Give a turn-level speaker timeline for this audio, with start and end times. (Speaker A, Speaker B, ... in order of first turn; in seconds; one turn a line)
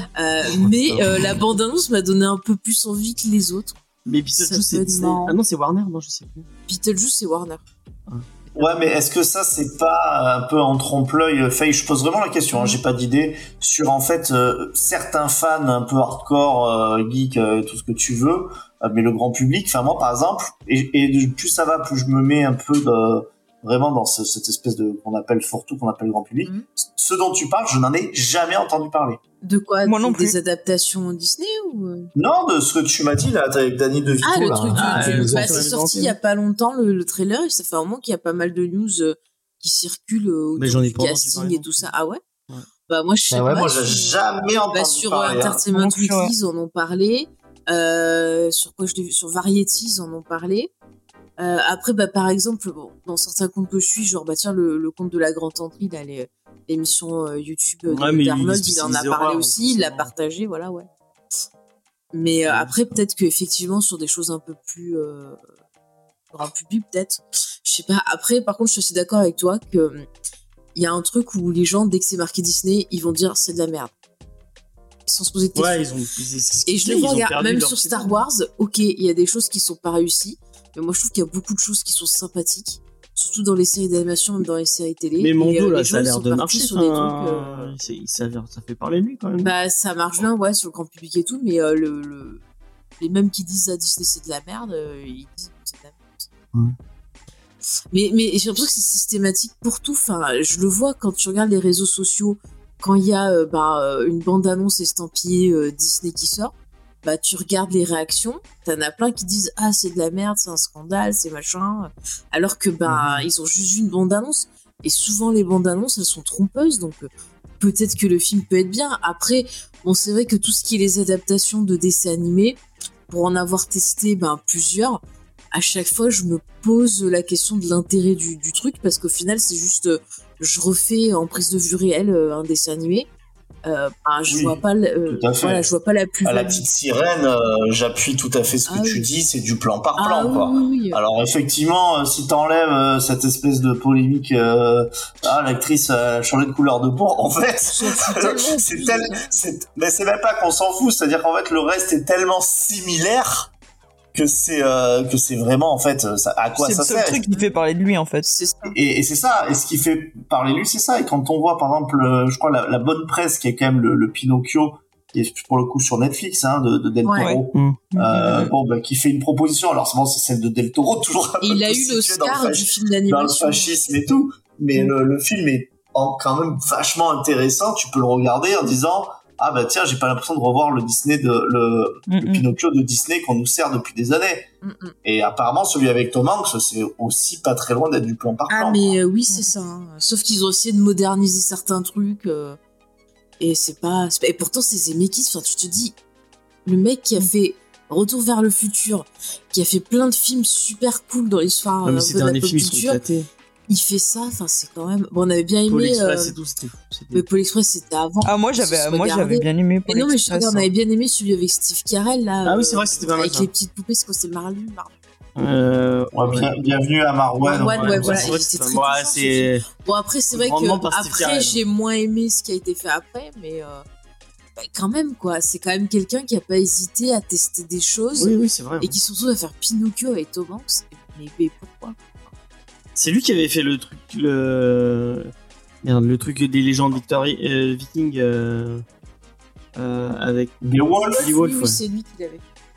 Speaker A: 0.1-3.8
Speaker B: 0.5-1.0
Speaker B: 4.0-6.5
Speaker A: 4.3-5.4
Speaker A: 6.7-7.6
Speaker A: 8.5-8.8
Speaker C: 8.5-29.2
Speaker A: 12.5-12.8
Speaker A: 29.4-32.1
Speaker D: 29.8-30.3
Speaker C: 32.1-35.6
Speaker A: 34.2-42.2
Speaker B: 34.7-36.1
Speaker B: 40.5-41.9
Speaker A: 42.9-50.7
Speaker C: 43.3-45.6
Speaker D: 45.7-46.3
Speaker A: 51.4-60.9
Speaker B: 57.9-60.1
Speaker A: 62.1-65.4
Speaker B: 62.5-62.8
Speaker A: 66.3-70.0
Speaker A: 70.7-73.9
Speaker A: 75.0-75.9
Speaker B: 75.5-78.2
Speaker A: 76.7-87.7
Speaker B: 85.2-89.5
Speaker A: 89.4-92.4
Speaker A: 93.0-96.3
Speaker A: 97.9-106.5
Speaker A: 107.0-133.1
Speaker B: 112.8-113.3
Speaker A: 133.6-136.6
Speaker C: 134.3-135.7
Speaker C: 136.2-153.5
Speaker A: 138.7-139.1
Speaker A: 140.0-141.0
Speaker A: 147.7-149.3
Speaker C: 154.1-157.2
Speaker D: 156.5-158.3
Speaker A: 157.3-157.5
Speaker A: 158.2-158.7
Speaker C: 158.7-184.5
Speaker A: 167.0-167.3
Speaker D: 167.2-168.5
Speaker B: 167.5-167.8
Speaker A: 171.4-173.8
Speaker D: 182.1-182.4
Speaker A: 184.6-184.9
Speaker C: 185.0-189.0
Speaker A: 188.5-192.6
Speaker A: 193.4-195.9
Speaker A: 196.6-203.0
Speaker B: 201.8-203.3
Speaker A: 203.7-206.3
Speaker B: 205.7-207.2
Speaker A: 207.1-214.9
Speaker D: 208.2-210.7
Speaker B: 212.4-213.5
Speaker B: 215.3-216.5
Speaker C: 216.1-218.4
Speaker A: 217.4-223.8
Speaker B: 217.4-219.7
Speaker B: 220.3-221.6
Speaker A: 224.6-232.0
Speaker B: 228.2-229.0
Speaker B: 232.9-235.3
Speaker B: 235.8-238.8
Speaker B: 239.7-240.6
Speaker C: 240.6-241.3
Speaker A: 241.0-242.4
Speaker B: 241.2-241.8